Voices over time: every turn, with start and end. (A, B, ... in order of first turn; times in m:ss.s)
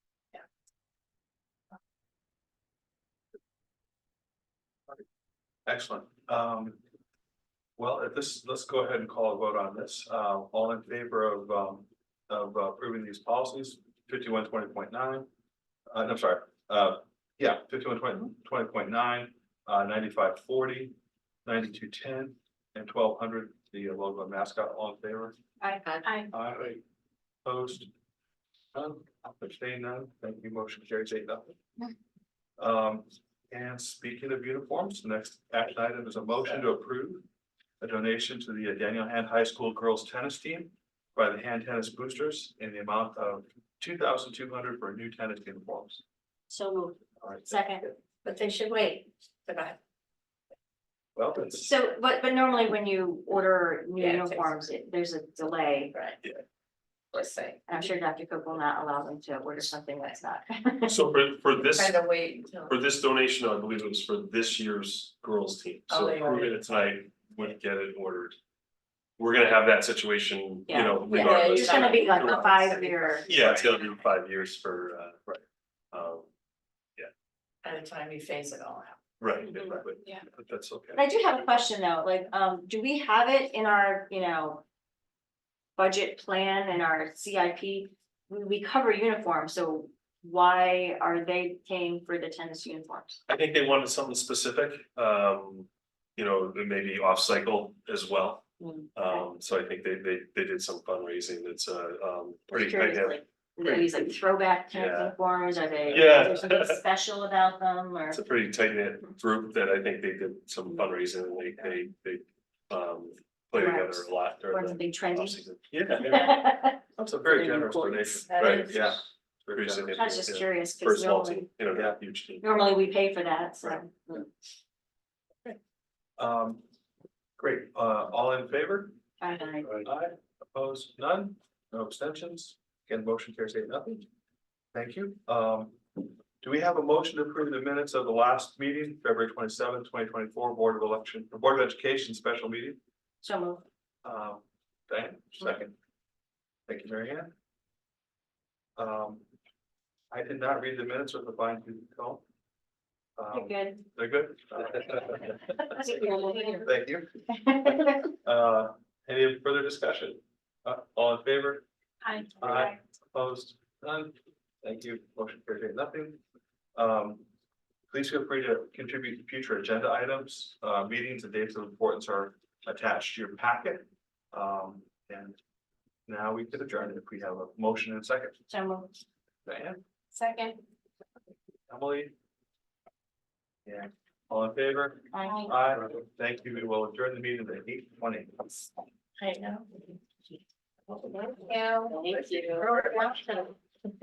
0:05.7-0:06.8 A
0:07.8-0:15.3 A
0:15.9-0:25.4 A
0:25.6-0:26.3 B
0:25.8-0:26.2 C
0:26.3-0:26.8 A
0:27.4-0:27.9 A
0:28.7-0:31.6 A
0:32.6-0:37.2 A
0:37.8-0:46.0 A
0:46.5-0:47.9 B
0:47.2-0:47.9 A
0:48.2-0:49.8 C
0:51.2-0:51.7 A
0:51.5-0:55.9 B
0:54.0-0:54.6 C
0:55.9-0:56.2 C
0:57.1-0:57.6 C
0:57.7-1:01.0 B
1:00.9-1:02.0 D
1:01.6-1:02.8 C
1:02.7-1:08.4 D
1:05.9-1:06.6 C
1:09.2-1:12.5 D
1:10.7-1:13.3 B
1:11.0-1:13.8 C
1:13.3-1:15.2 D
1:13.4-1:13.7 A
1:15.9-1:16.3 D
1:17.6-1:19.0 C
1:19.2-1:20.0 D
1:19.4-1:19.8 B
1:19.6-1:21.0 A
1:20.9-1:24.6 B
1:25.8-1:33.2 B
1:33.3-1:43.9 D
1:39.0-1:39.2 B
1:42.5-1:48.2 B
1:44.7-1:45.2 D
1:45.9-1:46.8 D
1:45.9-1:46.3 A
1:48.1-1:56.4 D
1:53.6-1:55.5 B
1:55.8-1:56.4 A
1:56.0-1:58.0 B
1:57.0-2:00.1 A
1:57.7-1:58.8 D
1:58.3-1:59.0 C
1:59.5-2:02.8 D
1:59.9-2:01.5 B
2:01.7-2:02.0 A
2:02.4-2:04.3 B
2:06.2-2:06.6 A
2:07.4-2:09.0 A
2:09.2-2:09.8 B
2:09.8-2:14.1 A
2:14.7-2:22.8 A
2:23.2-2:23.6 B
2:24.0-2:25.8 A
2:26.7-2:27.3 A
2:28.8-2:29.2 A
2:30.1-2:32.2 A
2:33.2-2:36.0 A
2:33.3-2:33.8 B
2:35.2-2:36.7 B
2:36.6-2:41.7 A
2:37.5-2:37.9 B
2:42.4-2:46.2 A
2:46.8-2:47.2 A
2:47.9-2:55.4 A
2:56.1-2:58.4 A
2:58.5-2:58.9 B
2:59.4-2:59.8 A
3:00.1-3:00.6 C
3:01.7-3:02.1 A
3:03.6-3:08.5 A
3:05.1-3:05.6 B
3:09.2-3:09.9 C
3:11.0-3:13.6 C
3:11.9-3:12.7 B